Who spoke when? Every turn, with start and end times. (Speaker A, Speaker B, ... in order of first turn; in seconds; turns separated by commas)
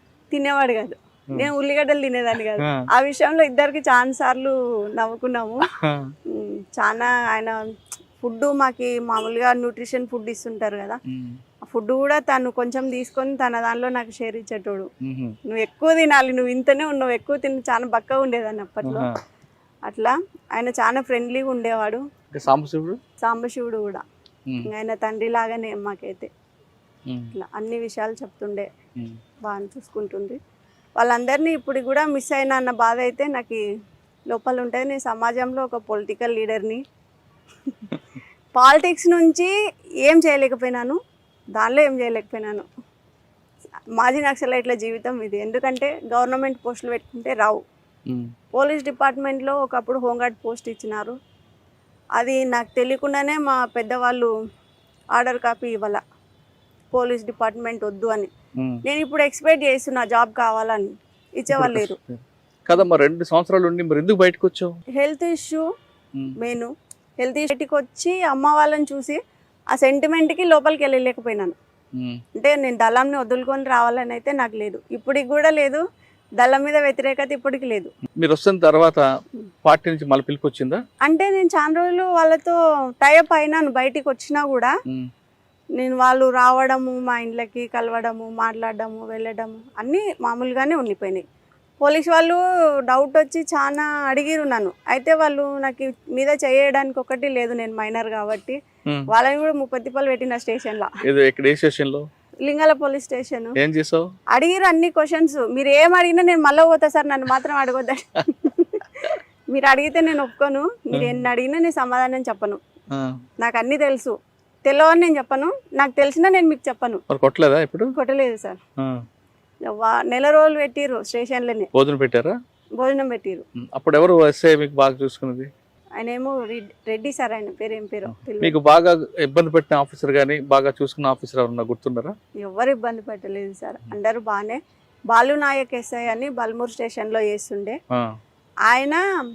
Speaker A: 0.3-5.7, Speaker B: 5.8-6.1, Speaker A: 6.3-7.5, Speaker A: 8.2-11.0, Speaker B: 11.1-11.4, Speaker A: 11.7-14.9, Speaker B: 15.0-15.3, Speaker A: 15.5-19.1, Speaker B: 18.8-19.1, Speaker A: 19.9-22.0, Speaker B: 22.3-23.0, Speaker A: 23.2-24.0, Speaker A: 24.6-26.3, Speaker B: 27.1-27.3, Speaker A: 27.3-28.7, Speaker A: 29.4-30.4, Speaker A: 31.0-33.6, Speaker A: 34.3-36.8, Speaker A: 38.5-39.5, Speaker A: 40.0-41.0, Speaker A: 41.5-42.6, Speaker A: 44.0-47.6, Speaker A: 48.5-51.1, Speaker A: 52.2-54.3, Speaker A: 55.1-56.0, Speaker A: 56.9-58.3, Speaker A: 58.8-62.0, Speaker B: 61.5-64.7, Speaker A: 64.9-65.7, Speaker A: 66.4-66.7, Speaker A: 67.2-69.2, Speaker A: 69.7-71.5, Speaker A: 72.3-75.8, Speaker A: 76.4-77.9, Speaker B: 78.2-79.0, Speaker B: 79.6-80.8, Speaker A: 81.0-84.7, Speaker A: 85.8-91.2, Speaker A: 91.8-98.6, Speaker A: 99.1-100.9, Speaker B: 101.0-102.0, Speaker A: 102.5-103.5, Speaker B: 103.6-104.0, Speaker A: 104.3-112.6, Speaker B: 110.9-111.2, Speaker B: 112.9-113.2, Speaker A: 113.4-114.1, Speaker A: 114.7-117.0, Speaker B: 117.1-117.9, Speaker A: 117.9-118.6, Speaker A: 119.7-121.7, Speaker B: 121.7-122.3, Speaker A: 122.8-123.4, Speaker B: 123.6-125.5, Speaker A: 126.0-128.5, Speaker B: 128.4-132.1, Speaker A: 132.4-134.6, Speaker A: 135.1-137.8, Speaker A: 138.7-139.0